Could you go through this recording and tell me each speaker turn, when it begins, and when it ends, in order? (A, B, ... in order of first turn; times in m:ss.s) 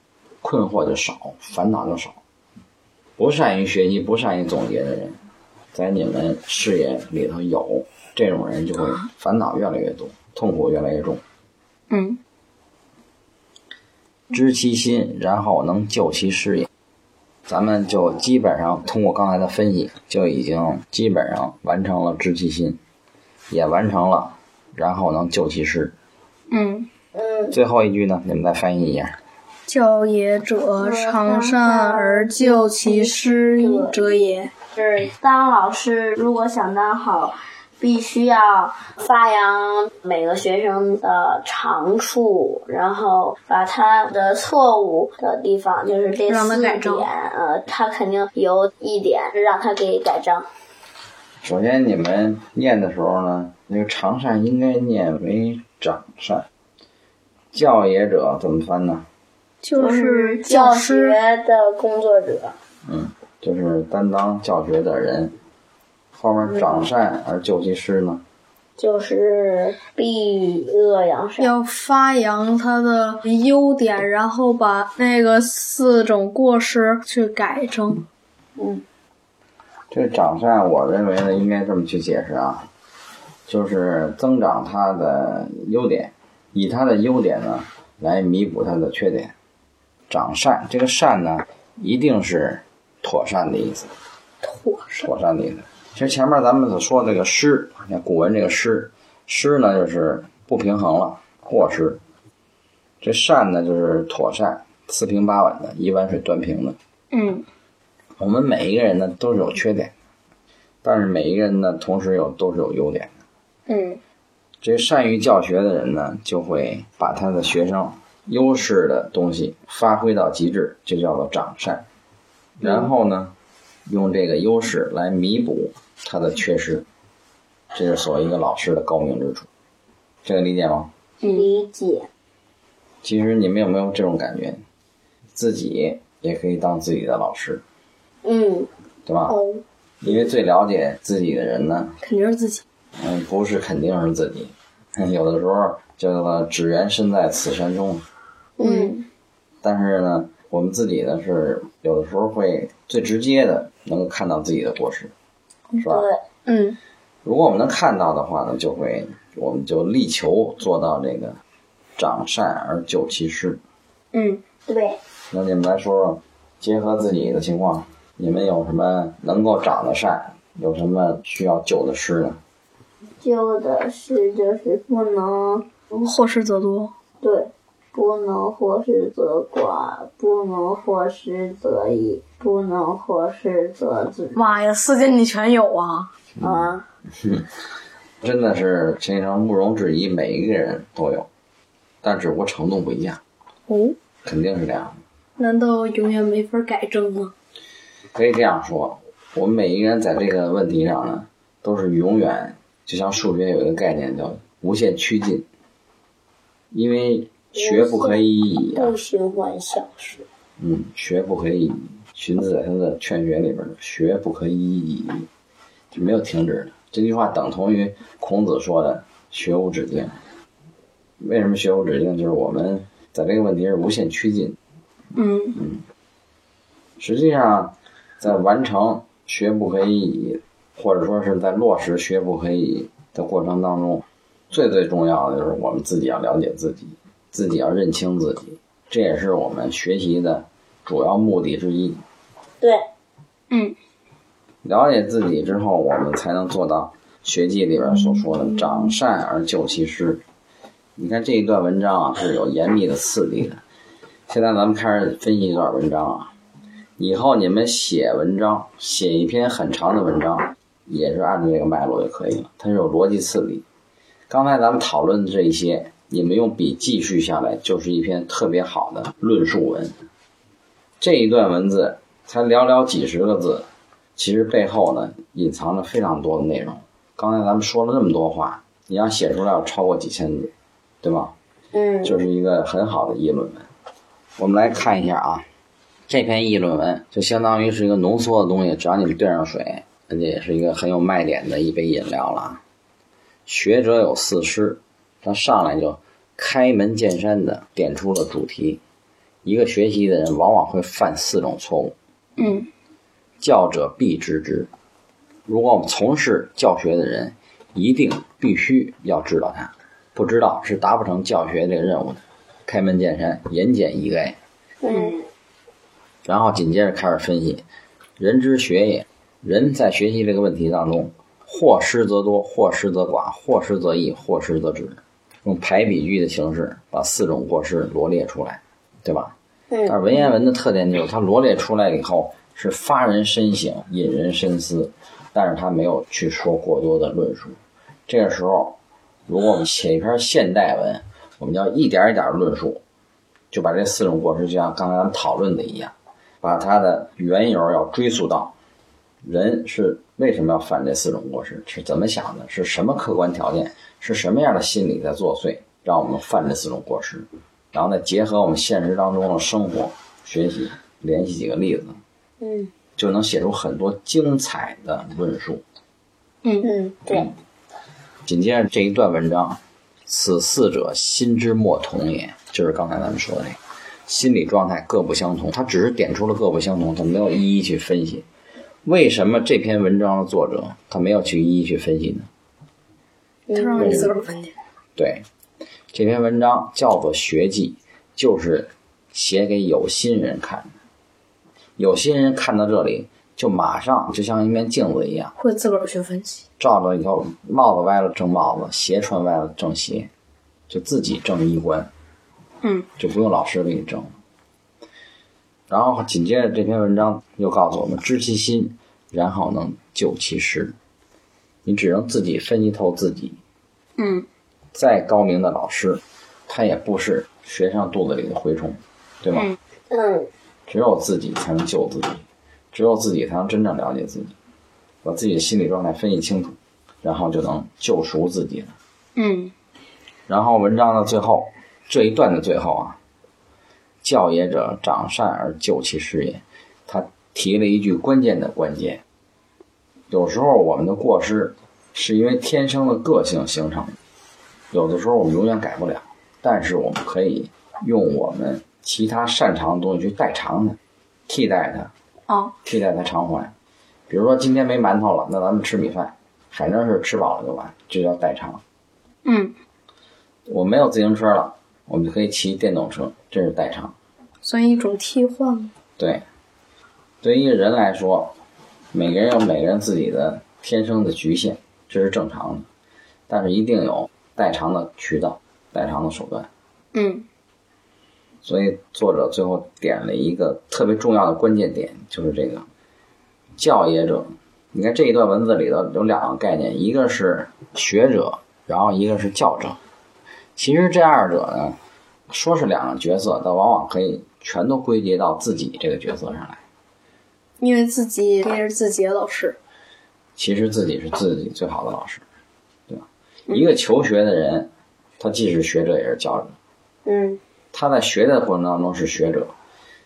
0:00.4-0:02.2 A
0:03.2-0:05.2 A
0:05.7-0:11.2 A
0:11.9-0:12.2 B
0:14.3-0:16.7 A
0:17.5-0:22.8 A
0:23.5-0:25.9 A
0:26.5-0:26.9 B
0:27.1-0:27.5 C
0:27.5-0:29.2 A
0:29.7-0:34.5 B
0:30.8-0:34.0 C
0:34.7-0:50.5 C
0:46.3-0:47.1 B
0:51.4-0:56.5 A
0:57.5-0:59.1 A
0:59.6-1:01.2 B
0:59.8-1:02.6 C
1:02.8-1:05.4 A
1:06.1-1:08.2 A
1:08.8-1:11.5 C
1:11.4-1:18.0 B
1:18.6-1:18.8 C
1:19.9-1:22.7 A
1:23.5-1:29.3 A
1:30.1-1:33.9 A
1:34.4-1:35.1 B
1:35.0-1:42.0 A
1:43.0-1:46.8 A
1:47.1-1:47.4 B
1:48.2-1:49.9 A
1:50.8-1:53.1 A
1:53.7-1:54.0 B
1:54.6-2:01.8 A
2:02.6-2:03.3 A
2:03.9-2:06.8 A
2:07.7-2:09.5 A
2:10.2-2:10.9 A
2:11.2-2:12.1 C
2:13.0-2:14.6 A
2:15.3-2:17.6 A
2:18.2-2:18.7 C
2:19.0-2:19.4 A
2:19.3-2:19.6 B
2:20.0-2:22.0 A
2:22.0-2:22.6 B
2:23.0-2:28.0 A
2:28.6-2:29.0 C
2:28.6-2:29.0 B
2:29.6-2:35.1 A
2:35.8-2:36.0 A
2:35.9-2:36.2 C
2:36.4-2:36.8 B
2:37.2-2:41.4 A
2:42.0-2:43.6 A
2:44.1-2:44.4 B
2:44.7-2:45.0 C
2:45.3-2:52.4 A
2:53.2-2:55.7 C
2:56.0-2:56.9 B
2:57.2-3:04.4 C
3:04.3-3:06.1 B
3:06.4-3:06.8 C
3:07.2-3:07.5 A
3:08.2-3:11.3 A
3:12.0-3:13.2 A
3:13.7-3:14.0 B
3:14.2-3:15.0 A
3:15.4-3:17.3 B
3:18.1-3:25.5 A
3:26.7-3:28.9 A
3:27.5-3:28.2 C
3:28.7-3:30.2 C
3:30.6-3:35.3 A
3:35.9-3:40.2 A
3:41.2-3:44.6 A
3:45.1-3:45.6 B
3:45.6-3:45.8 A
3:47.0-4:02.0 A
4:02.6-4:02.8 C
4:03.5-4:03.8 B
4:04.6-4:10.2 A
4:11.0-4:13.6 A
4:14.3-4:16.3 A
4:17.0-4:23.6 A
4:24.3-4:30.0 A
4:31.0-4:41.3 A
4:41.7-4:42.2 C
4:42.0-4:43.7 A
4:44.4-4:45.5 A
4:46.1-4:52.6 A
4:53.4-4:58.8 A
4:59.4-5:01.9 A
5:02.4-5:02.7 B
5:03.4-5:04.7 A
5:05.5-5:14.4 A
5:14.8-5:15.2 C
5:16.2-5:17.6 A
5:18.2-5:29.3 A
5:29.7-5:30.1 C
5:29.9-5:42.8 A
5:43.5-5:48.5 A
5:49.2-6:02.0 A
6:02.4-6:02.7 C
6:03.0-6:05.6 A
6:06.6-6:07.3 C
6:08.2-6:18.2 A
6:18.8-6:22.3 A
6:23.5-6:24.1 C
6:23.5-6:24.5 B
6:25.0-6:25.2 A
6:25.9-6:30.7 A
6:31.8-6:35.3 A
6:35.4-6:36.4 B
6:36.6-6:40.1 A
6:40.7-6:41.9 A
6:42.6-6:42.9 B
6:43.0-6:44.1 A
6:45.7-6:50.8 A
6:51.6-6:53.4 A
6:54.0-6:54.3 B
6:54.7-6:59.5 A
6:59.9-7:00.3 C
7:00.7-7:04.3 A
7:05.0-7:08.7 A
7:09.2-7:09.5 B
7:10.3-7:13.0 A
7:14.0-7:19.0 A
7:20.1-7:24.0 A
7:24.7-7:31.9 A
7:32.3-7:32.5 B
7:32.6-7:33.5 A
7:34.1-7:38.6 A
7:39.2-7:39.5 B
7:40.5-7:44.0 A
7:44.4-7:45.7 B
7:46.0-7:46.2 A
7:47.2-7:48.3 A
7:48.9-7:52.7 A
7:53.3-7:56.5 A
7:56.9-7:57.2 B
7:58.4-8:02.6 A
8:03.6-8:09.8 A
8:10.6-8:11.8 A
8:12.3-8:16.6 A
8:17.6-8:19.6 B
8:20.4-8:22.2 A
8:22.9-8:26.6 A
8:27.0-8:27.4 C
8:27.7-8:29.5 A